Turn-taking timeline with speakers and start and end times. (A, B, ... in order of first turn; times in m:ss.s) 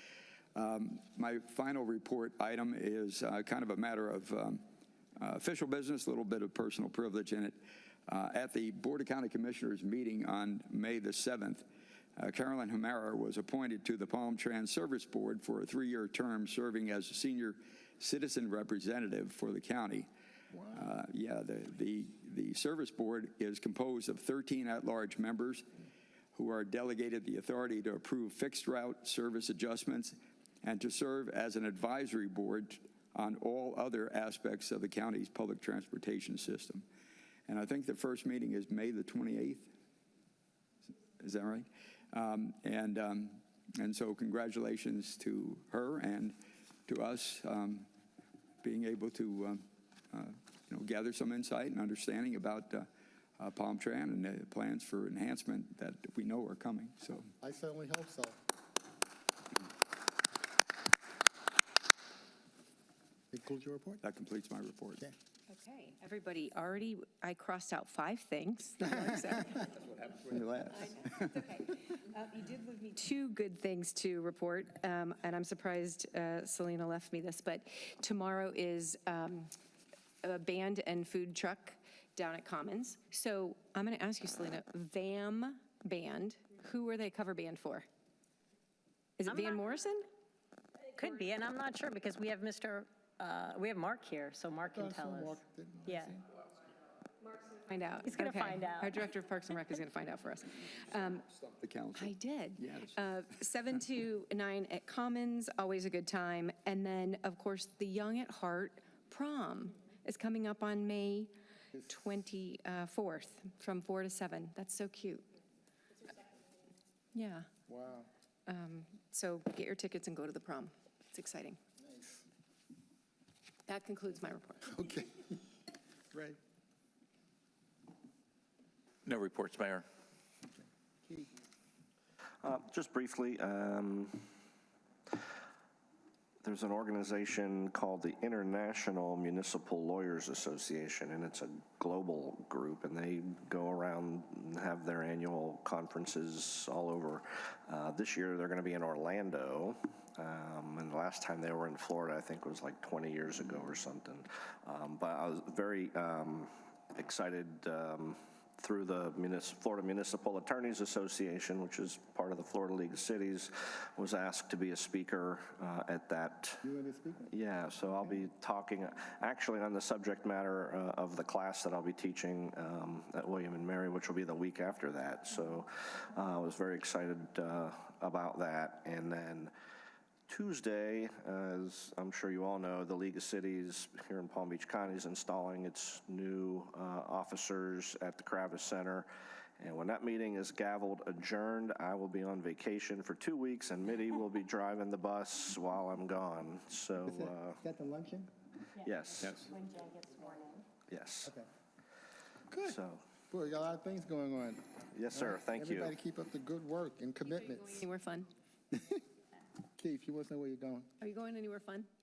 0:00.5-0:04.6 A
0:05.2-0:11.6 A
0:12.2-0:20.1 A
0:20.5-0:20.9 B
0:20.7-0:25.6 A
0:26.3-0:36.8 A
0:37.5-0:39.7 A
0:41.2-0:46.4 A
0:46.9-0:47.9 A
0:48.6-0:52.9 A
0:53.4-0:57.3 A
0:57.4-0:58.4 B
1:03.3-1:04.0 B
1:04.0-1:05.0 A
1:05.5-1:09.8 C
1:10.3-1:11.1 A
1:10.7-1:19.5 C
1:20.2-1:27.8 C
1:29.2-1:30.1 C
1:29.3-1:29.6 D
1:30.9-1:36.2 D
1:34.7-1:36.2 B
1:37.7-1:41.3 C
1:38.0-1:39.0 D
1:41.3-1:43.1 A
1:41.9-1:51.3 C
1:51.8-1:55.3 C
1:57.1-1:57.5 C
1:57.7-1:58.1 B
1:58.5-2:01.6 C
2:01.8-2:02.2 B
2:03.7-2:04.7 C
2:04.7-2:05.3 B
2:06.1-2:06.4 B
2:12.4-2:14.3 E
2:16.4-2:46.6 E
2:46.6-2:47.3 B
2:47.3-2:59.5 E
3:00.3-3:17.6 E
3:17.0-3:18.3 B
3:18.8-3:20.7 D
3:18.8-3:19.5 E
3:20.9-3:21.3 E
3:22.5-3:22.8 B
3:22.6-3:23.0 E
3:23.3-3:27.8 B
3:24.9-3:25.9 E
3:27.7-3:28.3 C
3:28.7-3:29.0 B
3:29.8-3:30.9 B
3:31.0-3:31.9 C